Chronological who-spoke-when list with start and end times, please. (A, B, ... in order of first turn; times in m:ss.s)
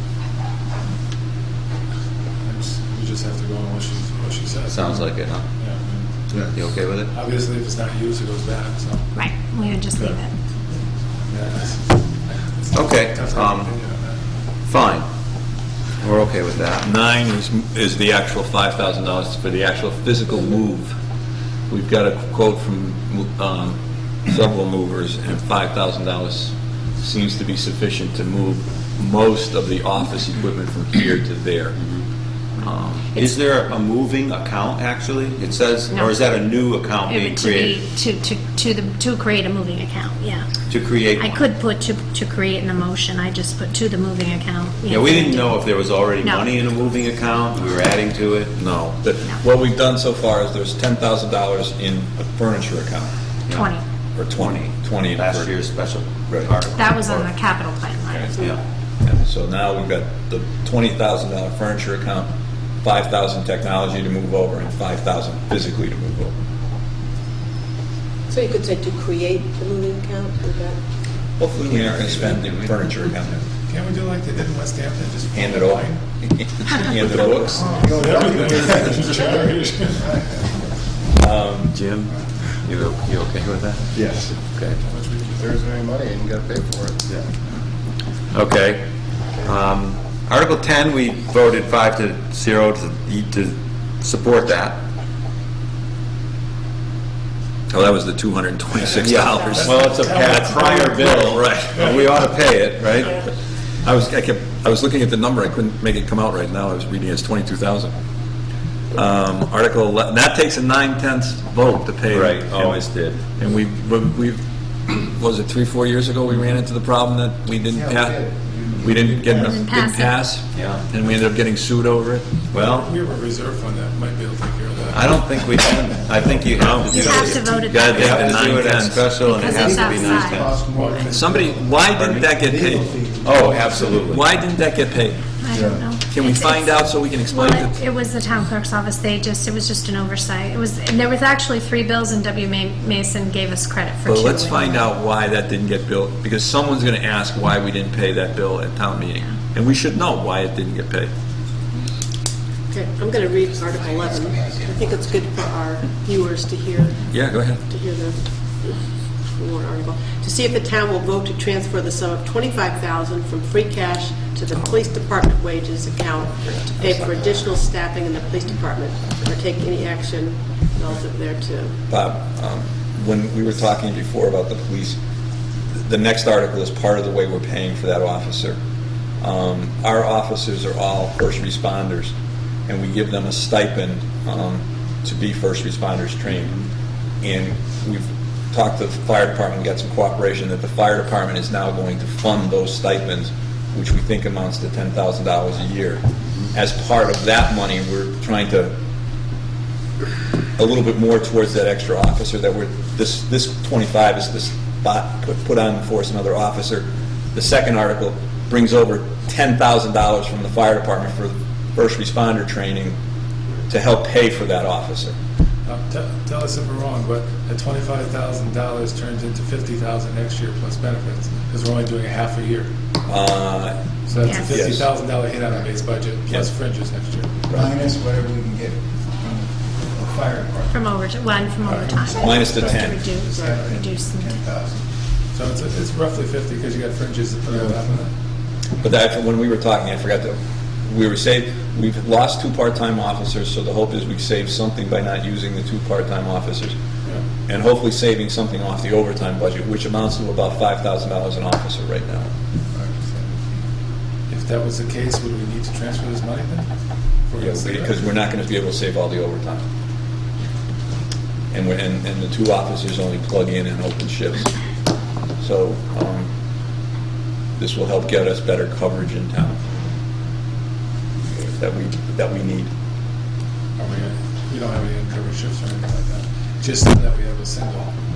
0:02.4-0:05.1 A
0:04.7-0:05.4 B
0:05.6-0:06.0 A
0:06.3-0:07.1 B
0:07.1-0:09.1 A
0:09.1-0:10.3 C
0:11.3-0:14.2 A
0:12.7-0:13.8 B
0:14.7-0:15.0 B
0:16.0-0:16.9 B
0:16.8-0:21.0 D
0:21.7-0:31.8 D
0:31.8-0:32.0 B
0:32.6-0:33.2 D
0:33.1-0:37.8 B
0:37.0-0:40.4 C
0:40.7-0:41.4 B
0:41.2-0:45.6 C
0:44.9-0:48.6 B
0:46.2-0:46.5 C
0:48.5-0:53.1 D
0:53.5-0:53.8 C
0:54.2-0:55.6 D
0:54.3-0:57.3 B
0:56.3-0:56.5 D
0:56.8-0:58.4 C
0:58.1-0:58.3 D
0:59.0-1:02.3 D
1:02.8-1:06.3 D
1:08.3-1:10.8 E
1:11.4-1:13.4 D
1:11.6-1:12.7 B
1:13.5-1:16.0 A
1:15.3-1:17.8 D
1:17.0-1:20.3 F
1:17.8-1:20.1 A
1:21.2-1:21.8 D
1:21.7-1:23.9 B
1:24.0-1:24.3 F
1:24.8-1:25.5 A
1:25.4-1:26.9 F
1:28.3-1:28.8 B
1:29.4-1:34.8 B
1:37.7-1:39.7 D
1:39.0-1:43.2 B
1:39.0-1:39.8 C
1:39.6-1:42.0 A
1:41.4-1:42.2 D
1:43.8-1:47.9 D
1:48.9-1:58.2 D
1:52.1-1:53.2 B
1:57.6-1:59.6 F
1:58.8-2:02.3 D
1:59.2-2:00.2 C
2:00.5-2:00.8 B
2:02.5-2:02.9 B
2:02.6-2:05.1 A
2:04.9-2:10.6 B
2:06.5-2:09.7 D
2:06.9-2:08.3 C
2:06.9-2:07.3 F
2:07.0-2:07.7 A
2:09.2-2:10.5 C
2:09.4-2:14.0 F
2:10.7-2:11.1 A
2:11.1-2:13.0 D
2:12.0-2:12.2 B
2:13.2-2:14.2 B
2:14.0-2:15.4 D
2:15.4-2:24.9 C
2:15.5-2:15.8 F
2:16.0-2:17.8 D
2:24.0-2:31.1 D
2:32.7-2:37.0 E
2:37.1-2:37.6 D
2:37.7-2:51.8 E
2:46.4-2:47.4 D
2:51.9-2:55.0 D
2:55.7-2:58.6 D
2:59.2-3:02.1 D
3:02.7-3:06.6 D
3:07.2-3:18.7 D
3:20.6-3:33.0 D
3:33.7-3:35.2 D
3:35.7-3:42.7 A
3:43.1-3:44.9 D
3:44.1-3:47.6 A
3:44.2-3:44.7 C
3:47.5-3:50.8 F
3:50.7-3:54.3 C
3:51.7-3:52.2 A
3:52.2-3:53.0 D
3:52.4-3:54.8 F
3:55.3-3:58.1 A
3:58.8-4:06.8 D
4:07.4-4:12.3 D
4:12.7-4:13.6 F
4:14.3-4:16.7 A
4:17.3-4:18.0 A
4:17.4-4:19.6 D
4:21.5-4:24.5 D
4:25.4-4:26.3 D
4:27.6-4:29.6 D
4:31.3-4:32.7 D
4:33.8-4:37.9 A